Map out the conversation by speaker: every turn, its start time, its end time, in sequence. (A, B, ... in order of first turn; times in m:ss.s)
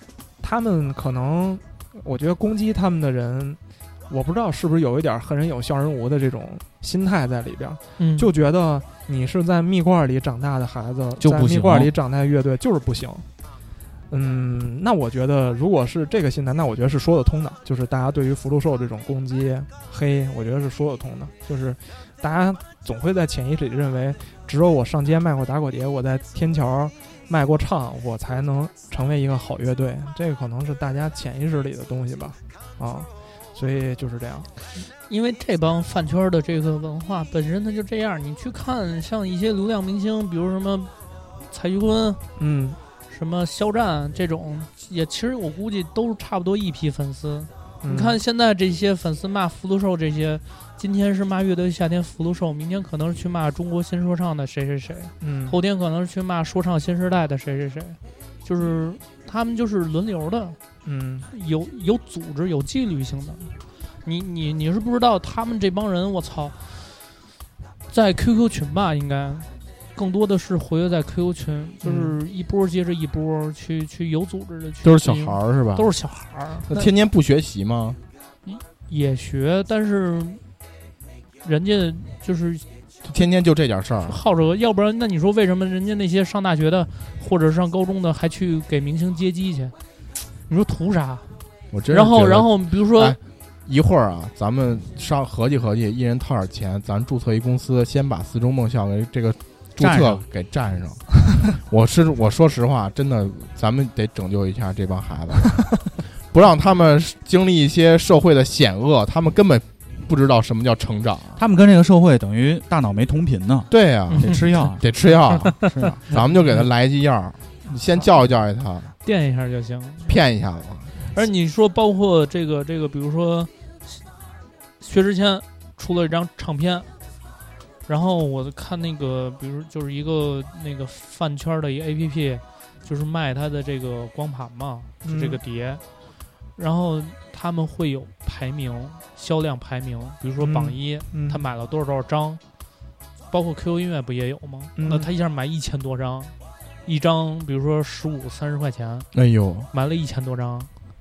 0:00.4-0:13.2 A
0:08.0-0:08.3 B
0:11.2-0:11.9 C
0:14.1-0:34.5 A
0:35.0-0:40.9 B
0:41.4-0:42.2 B
0:42.4-0:42.8 A
0:43.1-1:00.6 B
0:47.8-0:48.2 A
0:55.2-0:55.6 A
1:00.8-1:01.3 A
1:01.3-1:07.2 B
1:07.9-1:16.9 B
1:11.8-1:12.2 A
1:14.8-1:15.9 D
1:16.6-1:18.0 D
1:18.4-1:20.4 B
1:21.4-1:22.6 B
1:23.0-1:24.2 D
1:24.1-1:29.7 B
1:30.5-1:33.2 B
1:31.7-1:51.4 D
1:39.8-1:40.2 C
1:51.4-1:54.9 C
1:53.7-1:58.9 D
1:54.1-1:54.4 B
1:55.7-1:56.0 C
1:59.0-2:00.1 B
2:00.0-2:00.9 D
2:01.1-2:04.0 B
2:04.8-2:06.9 B
2:07.9-2:15.8 B
2:15.0-2:15.4 A
2:16.6-2:22.4 B
2:20.4-2:21.4 A
2:23.3-2:26.3 B
2:24.8-2:25.1 A
2:26.8-2:29.1 B
2:29.1-2:29.7 D
2:29.7-2:30.7 B